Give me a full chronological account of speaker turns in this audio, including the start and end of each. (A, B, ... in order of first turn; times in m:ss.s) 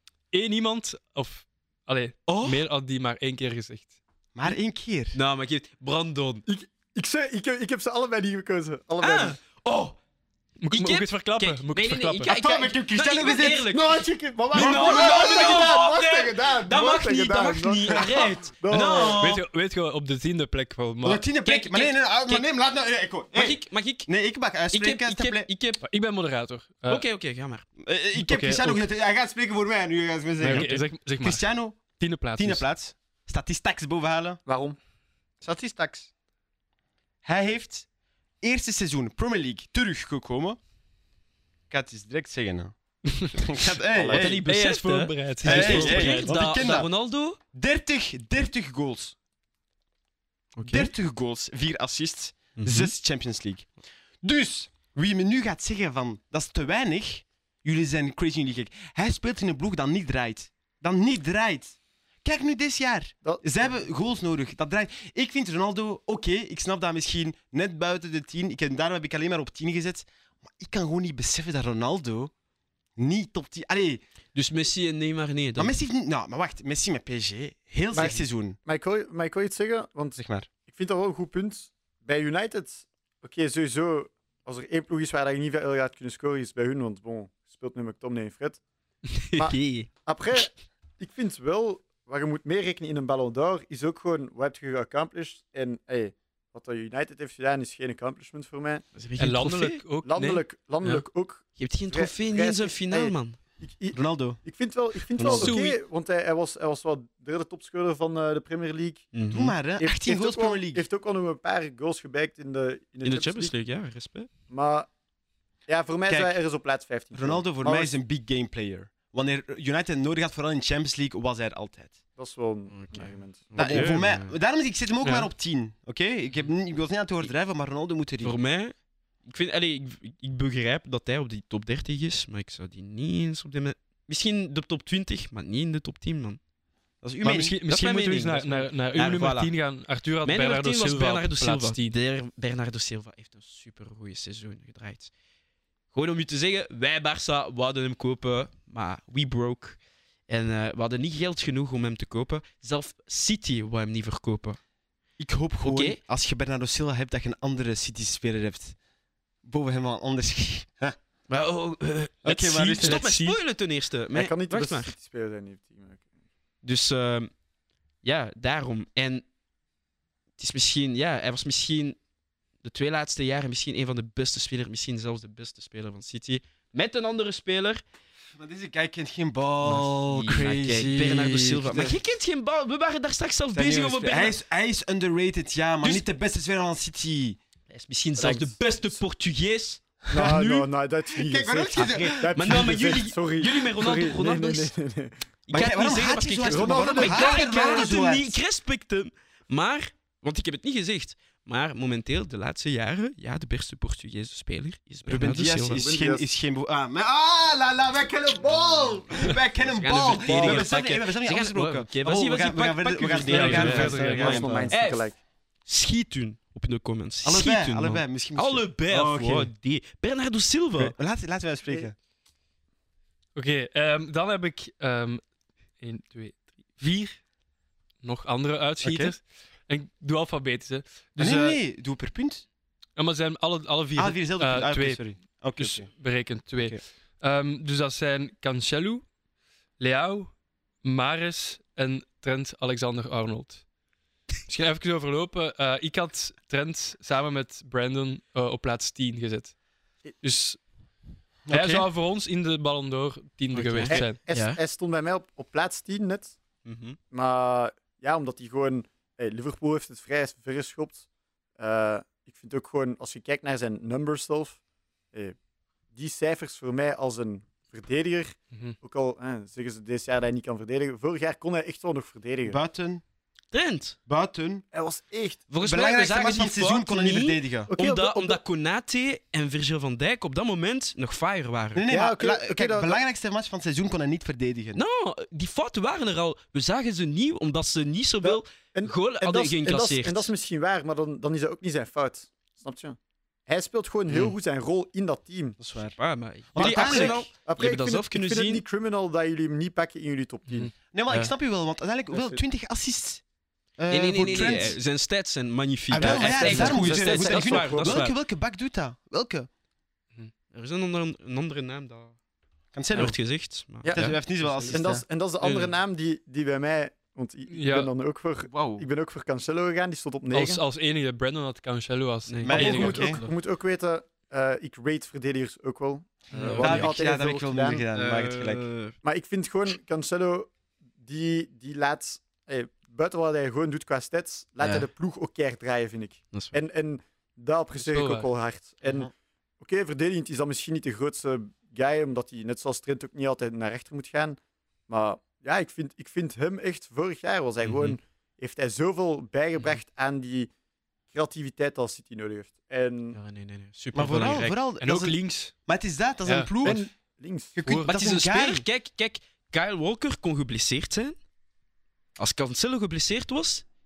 0:00.3-0:04.0 A
0:02.3-0:02.6 B
0:04.3-0:05.2 C
0:05.1-0:06.4 B
0:06.4-0:09.4 D
0:09.0-0:10.0 B
0:10.6-0:12.3 A
0:10.7-0:14.0 B
0:12.3-0:13.7 C
0:13.7-0:19.2 D
0:14.5-0:19.4 B
0:14.5-0:15.6 C
0:17.9-0:18.3 C
0:19.0-0:21.2 A
0:21.0-0:25.5 C
0:21.4-0:22.4 B
0:23.3-0:24.1 B
0:24.7-0:25.8 B
0:25.8-0:27.0 A
0:26.8-0:27.6 B
0:27.8-0:31.8 C
0:28.1-0:28.9 A
0:30.4-0:32.6 A
0:30.4-0:30.8 B
0:32.4-0:34.4 C
0:34.4-0:34.8 D
0:35.4-0:36.1 D
0:37.2-0:37.8 C
0:38.4-0:40.6 C
0:41.7-0:42.7 C
0:43.1-0:43.6 A
0:43.3-0:44.4 C
0:44.0-0:47.4 B
0:44.1-0:46.4 A
0:45.4-0:46.9 C
0:47.5-0:49.1 C
0:50.5-0:50.9 B
0:50.6-1:12.3 C
0:52.6-0:52.9 B
1:03.2-1:03.7 D
1:13.0-1:14.0 C
1:14.3-1:15.7 B
1:15.6-1:18.6 C
1:17.9-1:28.6 D
1:20.2-1:20.5 C
1:29.1-1:30.4 B
1:29.3-1:38.8 D
1:38.9-1:39.8 B
1:39.2-1:41.0 A
1:40.0-1:49.1 D
1:41.6-1:43.4 B
1:43.9-1:44.4 C
1:45.2-1:45.6 C
1:45.3-1:45.8 B
1:49.1-1:49.6 B
1:49.3-1:50.8 C
1:49.8-1:53.5 D
1:53.0-1:54.3 B
1:54.5-1:54.9 D
1:55.7-1:57.9 D
1:57.1-2:02.0 C
2:02.2-2:03.9 D
2:02.7-2:04.4 B
2:03.5-2:08.3 C
2:05.0-2:05.3 A
2:08.2-2:16.4 B
2:17.0-2:19.5 B
2:17.2-2:22.0 A
2:20.2-2:25.1 B
2:25.9-2:34.6 B
2:35.2-2:38.8 C
2:35.6-2:36.0 B
2:39.4-2:41.0 C
2:41.3-2:44.9 B
2:42.2-2:43.1 C
2:42.2-2:43.4 A
2:44.1-2:46.0 D
2:46.6-2:47.3 B
2:48.0-2:49.2 B
2:50.4-2:52.0 B
2:52.6-2:57.8 B
2:58.4-3:02.0 C
2:59.6-3:04.4 B
3:03.5-3:07.4 C
3:07.7-3:10.4 B
3:08.2-3:09.0 D
3:10.1-3:10.4 C
3:10.1-3:15.1 D
3:11.1-3:12.8 C
3:12.3-3:14.7 B
3:15.5-3:25.8 B
3:15.5-3:18.3 C
3:16.4-3:17.9 D
3:25.0-3:34.7 C
3:25.7-3:26.3 D
3:29.2-3:35.1 B
3:30.2-3:30.7 D
3:33.3-3:34.4 A
3:33.6-3:35.2 D
3:35.6-3:41.0 B
3:37.2-3:39.5 C
3:40.8-3:41.9 C
3:43.3-3:45.2 A
3:45.8-3:47.2 A
3:48.0-3:51.6 A
3:48.8-3:49.1 C
3:51.2-3:52.4 C
3:53.0-3:59.0 A
3:54.0-3:55.9 C
3:59.8-4:03.6 A
4:04.5-4:09.5 A
4:10.2-4:10.6 A
4:11.4-4:11.8 C
4:11.5-4:14.2 A
4:13.5-4:14.6 B
4:13.9-4:16.4 D
4:16.6-4:17.0 B
4:17.1-4:21.0 D
4:21.6-4:24.6 D
4:25.9-4:32.6 D
4:32.4-4:33.0 C
4:33.5-4:34.0 B
4:34.1-4:34.6 C
4:34.7-4:35.4 D
4:35.5-4:41.8 B
4:35.6-4:37.7 C
4:37.7-4:38.4 D
4:41.7-4:44.8 C
4:41.9-4:43.0 D
4:44.7-4:50.3 B
4:48.2-4:55.6 D
4:54.1-4:54.4 B
4:55.6-4:56.0 C
4:55.8-4:58.6 B
4:56.5-4:57.3 C
4:56.6-5:00.7 D
5:00.9-5:03.2 C
5:02.1-5:02.4 D
5:03.8-5:04.8 C
5:03.9-5:08.2 B
5:05.9-5:09.5 C
5:06.0-5:08.0 D
5:10.5-5:12.2 B
5:12.7-5:13.2 C
5:12.9-5:15.7 B
5:13.8-5:14.2 D
5:13.9-5:15.0 C
5:14.7-5:20.6 D
5:17.5-5:17.9 A
5:18.5-5:18.8 B
5:20.3-5:23.0 A
5:22.3-5:23.3 B
5:22.4-5:23.2 C
5:22.5-5:27.8 D
5:26.3-5:27.0 B
5:26.4-5:26.6 A
5:26.6-5:28.6 C
5:27.9-5:29.0 B
5:29.0-5:50.5 D
5:34.6-5:34.9 B
5:37.7-5:38.3 A
5:47.6-5:48.0 B
5:51.1-5:53.2 D
5:53.1-5:54.6 B
5:53.9-5:56.8 C
5:54.8-5:55.5 A
5:56.2-5:56.5 A
5:56.6-5:57.6 D
5:57.6-5:58.6 C
5:57.6-5:57.9 A
5:57.9-6:01.2 B
6:02.2-6:03.6 B